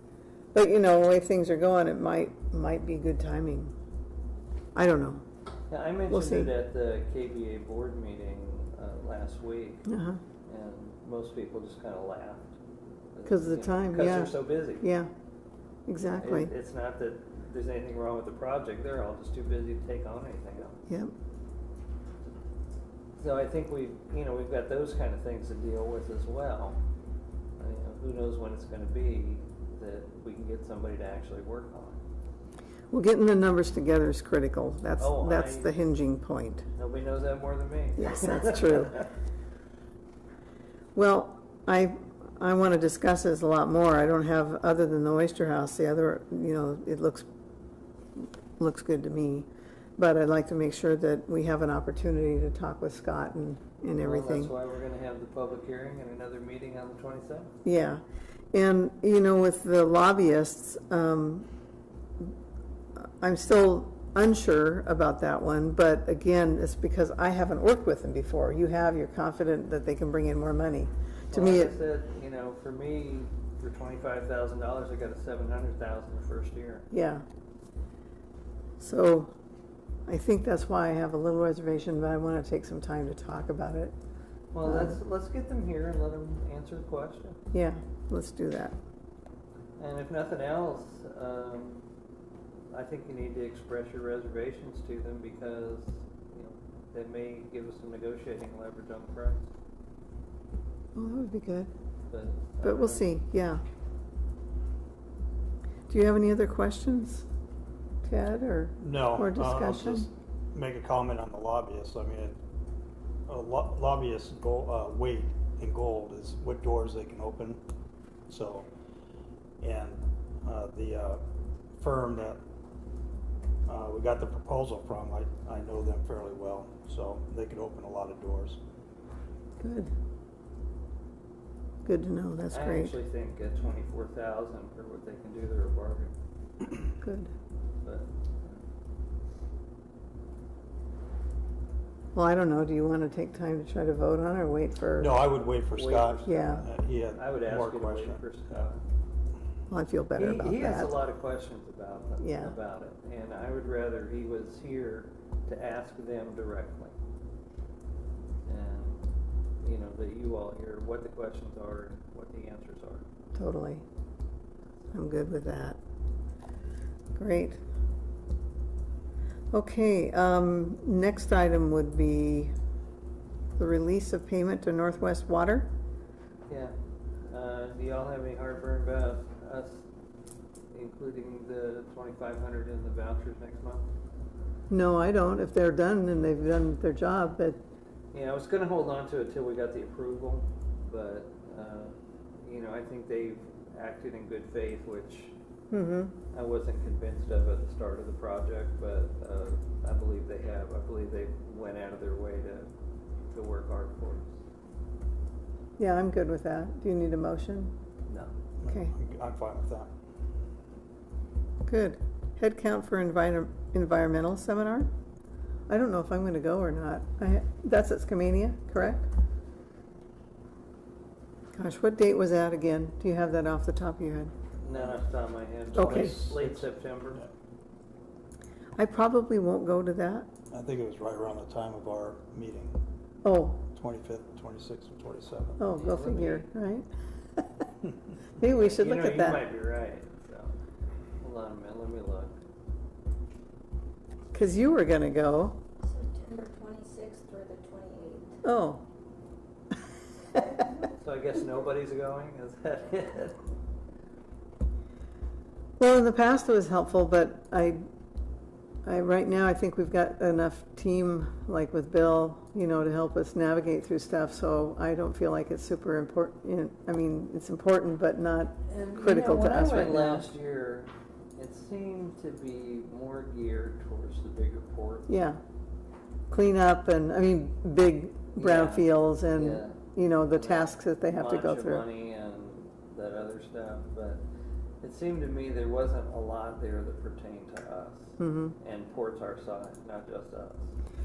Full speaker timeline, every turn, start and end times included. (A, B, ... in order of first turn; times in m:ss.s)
0:00.5-0:03.7 A
0:04.7-0:05.2 A
0:05.7-0:09.9 B
0:06.1-0:06.5 A
0:09.9-0:10.2 A
0:10.5-0:12.6 B
0:13.1-0:14.8 B
0:13.2-0:15.1 A
0:15.9-0:16.5 A
0:16.2-0:20.8 B
0:20.9-0:21.1 A
0:23.2-0:26.8 B
0:27.6-0:32.0 B
0:32.9-0:36.6 A
0:35.0-0:35.7 B
0:36.8-0:39.1 B
0:38.0-0:39.0 A
0:40.9-0:47.2 A
0:48.2-0:54.5 A
0:54.0-0:57.6 B
0:57.6-1:01.5 A
1:03.0-1:11.7 A
1:11.3-1:16.9 B
1:16.9-1:17.2 A
1:18.8-1:19.3 A
1:20.1-1:23.9 A
1:24.5-1:27.4 B
1:24.6-1:24.9 A
1:27.5-1:28.8 A
1:29.8-1:31.8 B
1:32.7-1:39.5 B
1:40.9-1:41.7 A
1:42.1-1:43.1 B
1:42.6-1:43.6 A
1:45.9-1:47.2 A
1:48.0-1:50.1 A
1:48.8-1:52.4 C
1:53.3-1:57.6 C
1:58.3-1:58.7 C
1:59.6-2:01.2 C
2:01.8-2:02.4 C
2:03.6-2:08.6 C
2:09.6-2:09.9 A
2:11.8-2:12.9 A
2:12.5-2:16.1 B
2:17.0-2:17.3 A
2:17.8-2:18.6 B
2:22.1-2:25.2 A
2:25.0-2:28.2 C
2:25.7-2:28.8 B
2:26.2-2:26.6 A
2:29.7-2:31.0 A
2:30.2-2:36.9 B
2:32.2-2:32.5 A
2:38.4-2:39.0 B
2:39.6-2:43.0 B
2:43.3-2:43.8 A
2:44.9-2:45.8 A
2:47.2-2:47.6 A
2:49.5-2:52.5 A
2:53.6-2:55.7 A
2:56.5-2:56.7 B
2:57.3-2:59.8 B
3:00.7-3:03.9 B
3:04.7-3:07.6 A
3:08.1-3:15.3 B
3:15.7-3:16.1 A
3:16.3-3:22.7 B
3:23.3-3:24.3 B
3:25.8-3:27.7 A
3:28.6-3:29.9 C
3:28.6-3:28.9 A
3:31.6-3:34.9 A
3:35.7-3:39.1 A
3:41.5-3:44.3 A
3:44.6-3:47.2 B
3:44.7-3:45.0 C
3:45.7-3:46.7 C
3:45.7-3:46.1 A
3:48.8-3:50.3 A
3:50.5-3:52.8 C
3:53.2-3:53.6 A
3:53.7-3:55.6 C
3:55.6-3:57.4 A
3:55.6-3:56.5 B
3:58.4-3:59.5 A
3:58.5-4:00.5 B
4:01.2-4:02.4 B
4:04.3-4:05.6 A
4:05.8-4:08.4 D
4:08.4-4:08.8 A
4:10.9-4:13.4 B
4:15.8-4:17.8 A
4:18.8-4:30.3 A
4:28.7-4:35.2 B
4:35.1-4:35.4 A
4:36.3-4:41.8 A
4:38.4-4:44.2 B
4:44.8-4:50.7 B
4:48.2-4:48.6 A